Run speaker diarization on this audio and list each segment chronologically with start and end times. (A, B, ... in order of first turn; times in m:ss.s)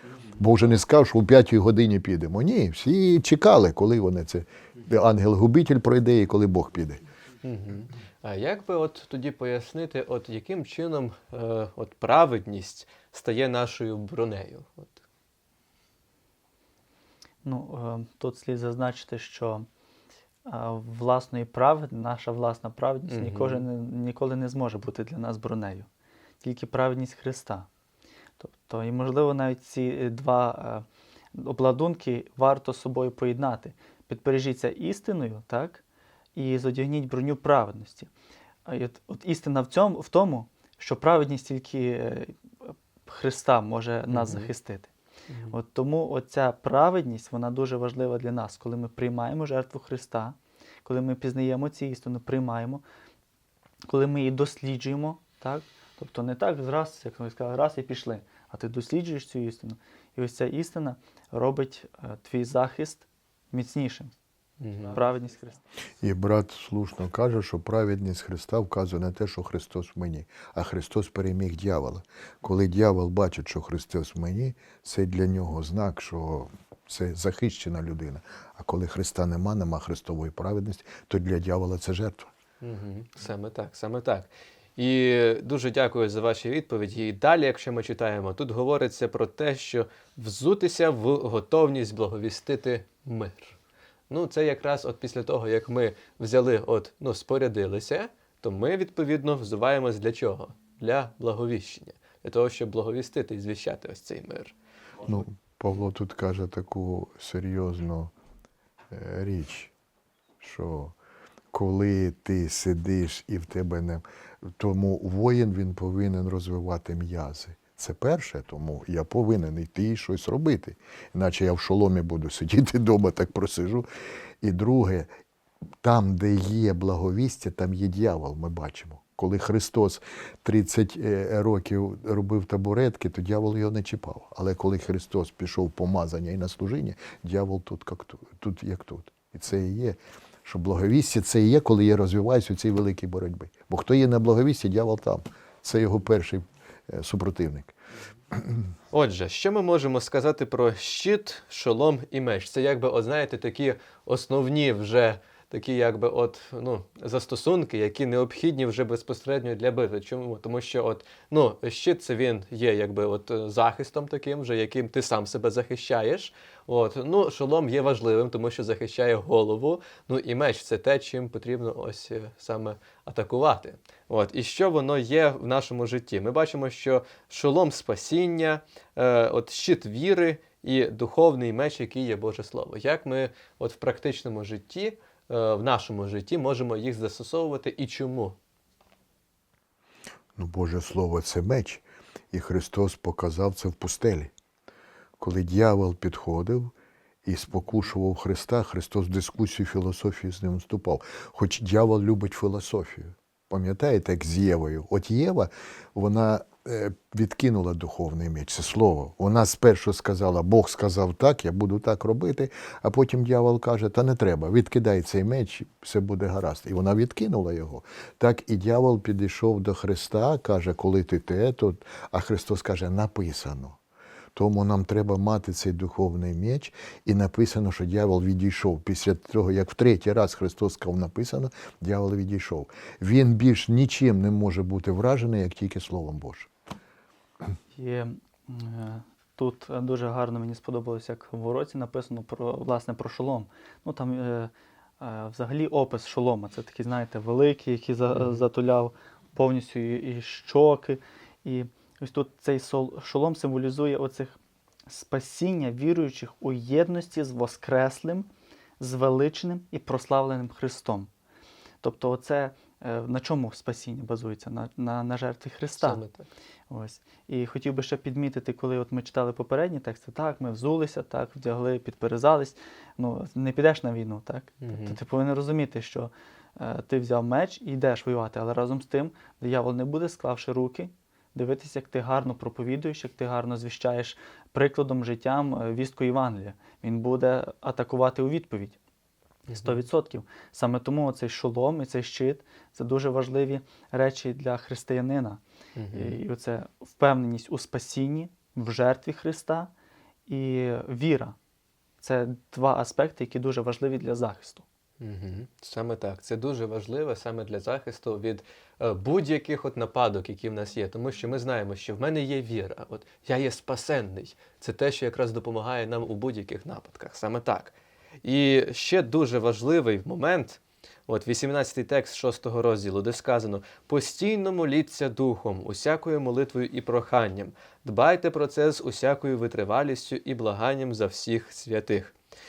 0:00.4-0:07.0 A
0:07.4-0:15.0 B
0:17.4-0:19.7 C
0:20.5-0:25.9 C
0:23.1-0:23.6 B
0:26.4-0:27.7 C
0:28.4-0:35.8 C
0:36.4-0:38.1 C
0:38.7-0:44.9 C
0:44.1-0:44.5 B
0:45.3-0:45.6 B
0:45.5-0:52.8 C
0:53.9-1:04.1 C
1:04.6-1:05.0 B
1:04.9-1:05.6 C
1:06.0-1:22.3 A
1:22.6-1:33.6 B
1:34.1-1:44.6 B
1:45.0-1:48.1 A
1:48.9-1:49.7 A
1:50.4-1:51.0 A
1:51.5-1:54.0 A
1:54.6-2:03.9 A
2:04.4-2:05.1 A
2:05.8-2:27.8 A
2:28.9-3:08.4 B
3:10.4-3:14.3 A
3:15.2-3:16.7 A
3:17.2-3:43.8 A
3:44.3-3:56.5 A
3:57.7-4:14.4 C
4:08.1-4:08.5 B
4:14.9-4:21.1 C
4:21.8-4:26.0 C
4:25.8-4:26.3 B
4:26.7-4:48.8 C
4:34.6-4:35.0 B
4:49.5-4:49.8 B
4:49.5-4:59.7 C
4:55.8-4:56.2 B
5:00.3-5:01.4 C
5:02.0-5:04.6 C
5:05.0-5:32.1 B